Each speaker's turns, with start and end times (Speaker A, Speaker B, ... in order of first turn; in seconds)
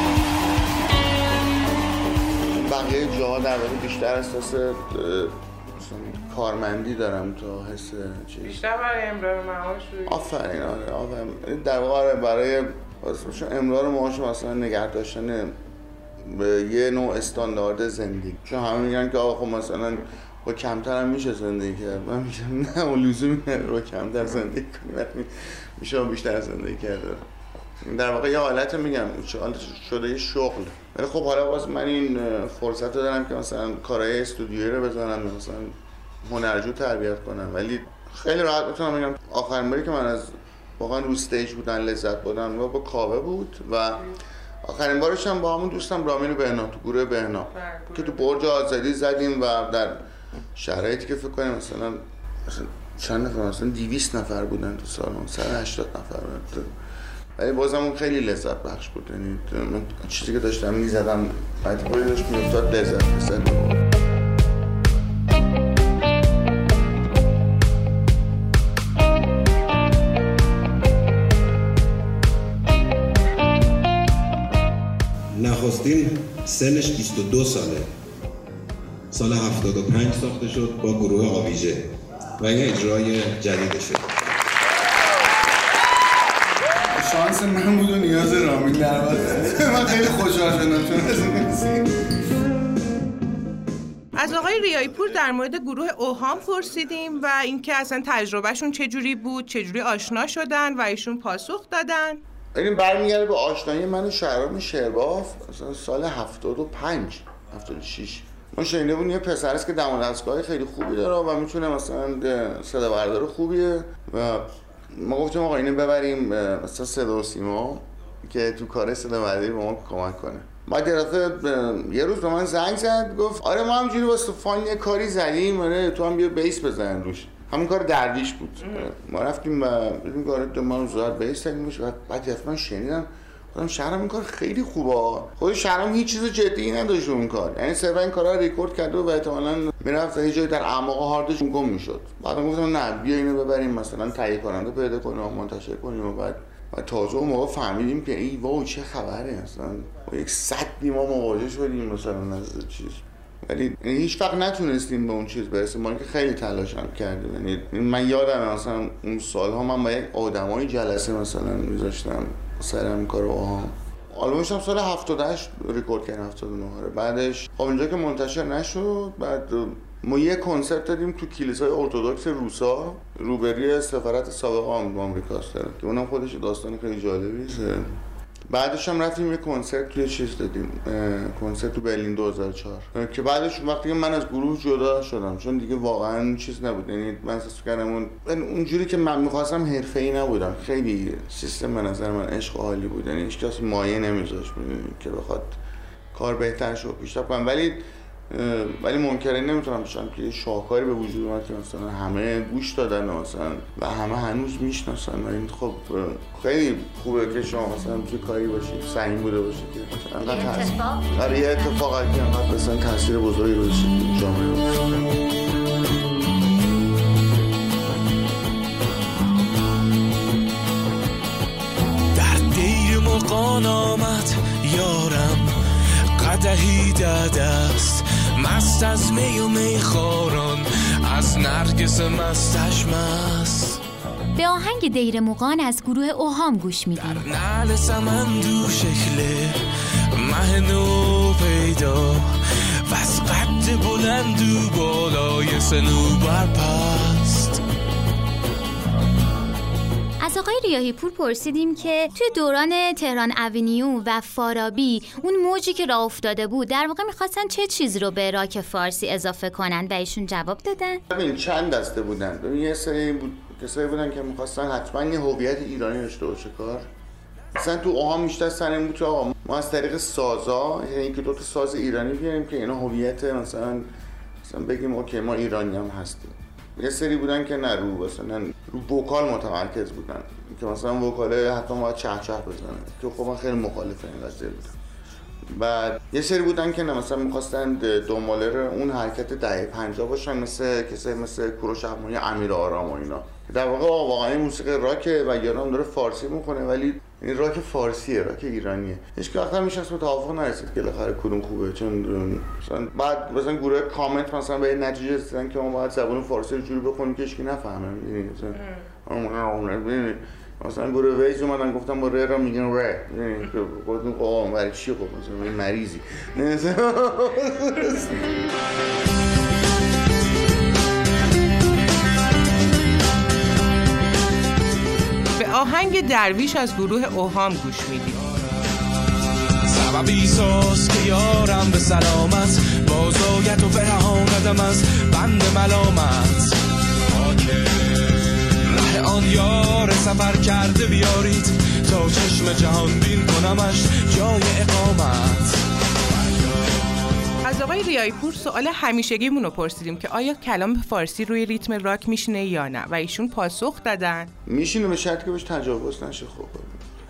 Speaker A: 2.5-8.6, 10.1-15.6, 16.2-27.3, 27.8-50.0, 50.5-56.7, 57.4-63.9, 86.9-92.0, 102.5-177.9, 178.5-195.6, 196.1-214.8, 261.1-266.9, 267.6-273.9, 274.4-284.8, 285.5-318.4, 354.4-356.8
Speaker B: 8.4-10.3, 47.5-48.4, 94.1-102.2, 325.4-328.2, 347.4-354.3
Speaker C: 75.3-77.9, 79.1-84.0
Speaker D: 210.2-211.8, 234.3-237.2, 250.2-261.0
Speaker E: 222.1-225.6, 226.2-233.8, 237.0-247.6, 329.6-345.6